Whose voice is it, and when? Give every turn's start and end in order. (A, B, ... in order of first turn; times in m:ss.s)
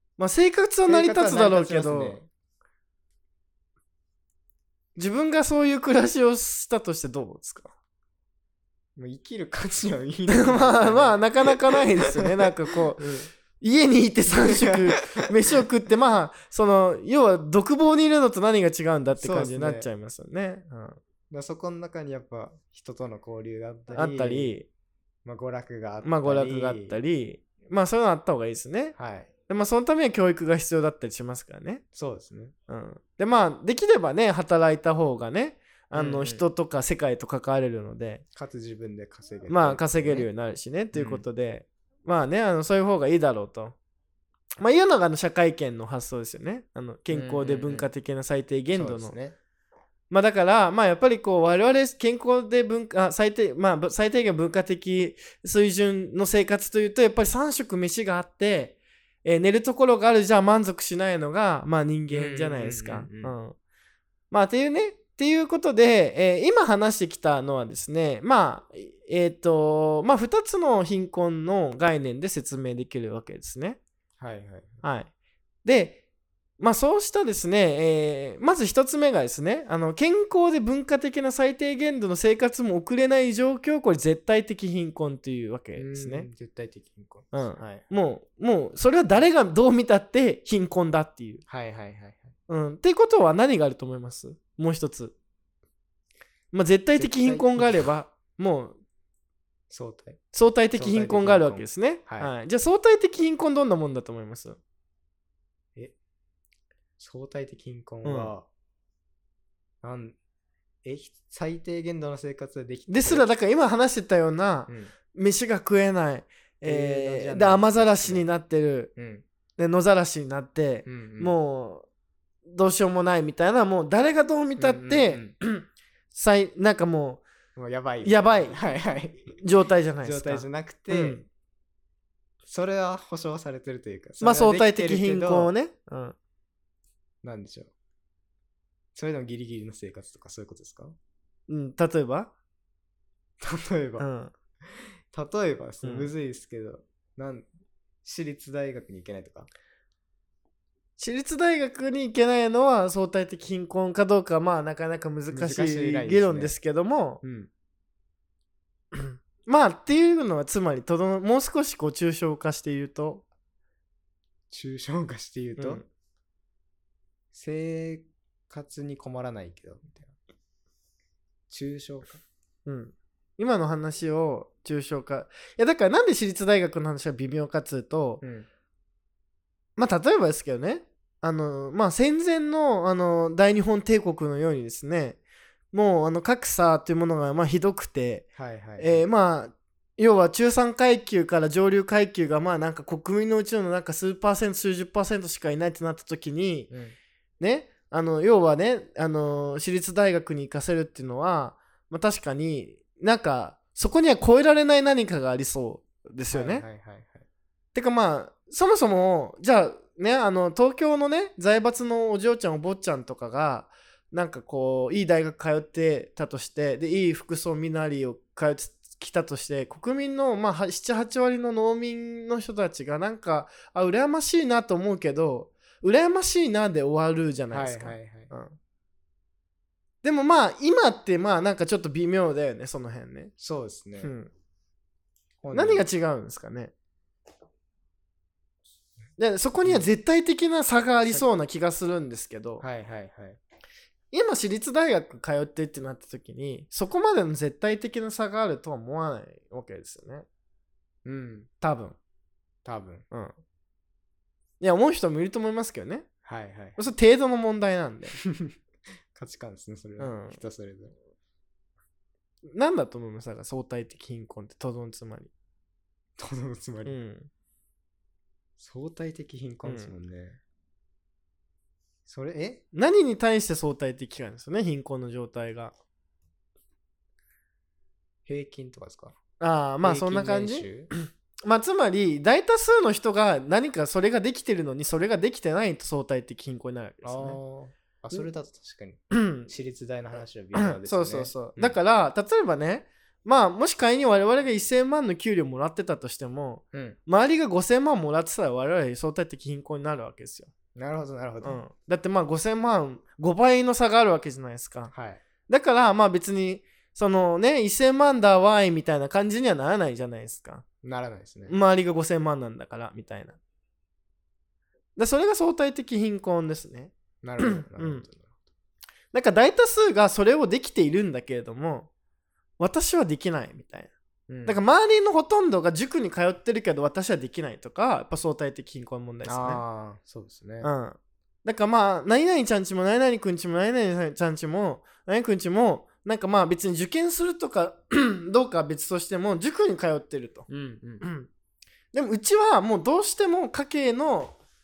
0:00.2-0:02.2 A
0:00.9-0:02.3 B
0:05.0-0:07.7 A
0:09.0-0:12.3 B
0:10.3-0:21.0 A
0:14.3-0:14.8 B
0:19.1-0:19.9 B
0:21.3-0:24.5 B
0:23.9-0:24.7 A
0:25.2-0:27.0 B
0:26.0-0:28.9 A
0:29.0-0:29.3 B
0:29.5-0:31.8 A
0:31.9-0:32.5 B
0:32.7-0:38.2 A
0:35.9-0:36.4 B
0:38.3-0:40.3 B
0:39.5-0:43.7 A
0:40.9-0:41.2 B
0:44.6-0:49.1 A
0:47.1-0:47.9 B
0:48.7-0:49.4 B
0:50.1-1:03.5 A
1:02.1-1:03.3 B
1:04.3-1:13.8 A
1:14.2-1:14.8 B
1:14.8-1:15.1 A
1:15.6-1:16.0 A
1:16.6-1:26.3 A
1:25.8-1:27.9 B
1:27.3-1:31.4 A
1:31.5-1:32.3 B
1:32.5-1:35.1 A
1:36.5-1:38.8 A
1:37.0-1:37.9 B
1:39.7-1:42.3 B
1:40.3-1:44.6 A
1:47.0-1:48.4 B
1:48.0-1:48.3 A
1:49.8-1:50.2 B
1:50.8-1:53.2 B
1:52.9-1:58.9 A
1:54.7-1:54.9 B
1:56.6-1:58.3 B
1:59.0-1:59.2 B
1:59.6-2:01.9 A
2:00.8-2:01.3 B
2:02.5-2:07.2 A
2:04.6-2:05.3 B
2:07.5-2:09.4 B
2:08.0-2:08.6 A
2:09.4-2:11.2 A
2:10.0-2:11.2 B
2:12.4-2:15.5 B
2:14.2-2:16.1 A
2:17.2-2:17.7 B
2:18.9-2:21.0 B
2:21.5-2:22.3 A
2:23.4-2:24.1 B
2:24.0-2:24.3 A
2:24.7-2:27.5 B
2:25.8-2:26.1 A
2:28.0-2:29.5 B
2:31.0-2:37.2 A
2:35.3-2:36.5 B
2:37.2-2:37.5 B
2:38.9-2:43.2 A
2:44.5-2:45.8 B
2:45.6-2:45.8 A
2:47.3-2:50.1 B
2:51.5-2:52.2 B
2:52.6-2:58.2 A
2:58.2-2:58.5 B
2:59.8-3:05.2 A
3:05.7-3:08.3 A
3:08.3-3:09.0 B
3:08.8-3:16.7 A
3:16.7-3:17.0 B
3:17.4-3:26.6 A
3:26.3-3:27.2 B
3:27.7-3:48.6 A
3:47.5-3:48.3 B
3:50.0-3:53.3 A
3:53.4-3:54.1 B
3:54.0-3:54.3 A
3:55.4-3:55.8 B
3:55.5-3:56.7 A
3:59.2-4:02.6 A
3:59.6-3:59.9 B
4:02.6-4:03.4 B
4:04.1-4:10.2 A
4:11.0-4:11.5 B
4:11.6-4:12.0 A
4:12.6-4:13.0 B
4:13.1-4:13.4 A
4:14.6-4:16.1 A
4:16.2-4:16.8 B
4:16.8-4:18.2 A
4:18.2-4:18.5 B
4:19.1-4:20.9 B
4:20.0-4:20.4 A
4:22.5-4:25.3 A
4:26.2-4:27.0 B
4:26.8-4:27.3 A
4:28.6-4:30.4 B
4:29.6-4:29.9 A
4:32.0-4:32.6 B
4:32.7-4:35.7 A
4:38.2-4:39.2 B
4:39.4-4:47.4 A
4:39.8-4:40.9 B
4:47.0-4:51.8 B
4:49.1-4:49.5 A
4:50.5-5:00.5 A
4:56.7-4:57.0 B
5:00.7-5:01.6 B
5:01.4-5:04.9 A
5:04.9-5:05.2 B
5:05.5-5:10.6 A
5:10.8-5:11.6 B
5:11.5-5:13.4 A
5:15.0-5:18.0 A
5:17.2-5:18.3 B
5:19.1-5:21.9 A
5:22.6-5:23.9 A
5:24.3-5:24.6 B
5:24.4-5:29.6 A
5:29.2-5:30.7 B
5:30.6-5:40.5 A
5:40.5-5:41.0 B
5:41.0-5:41.3 A
5:41.9-5:44.4 A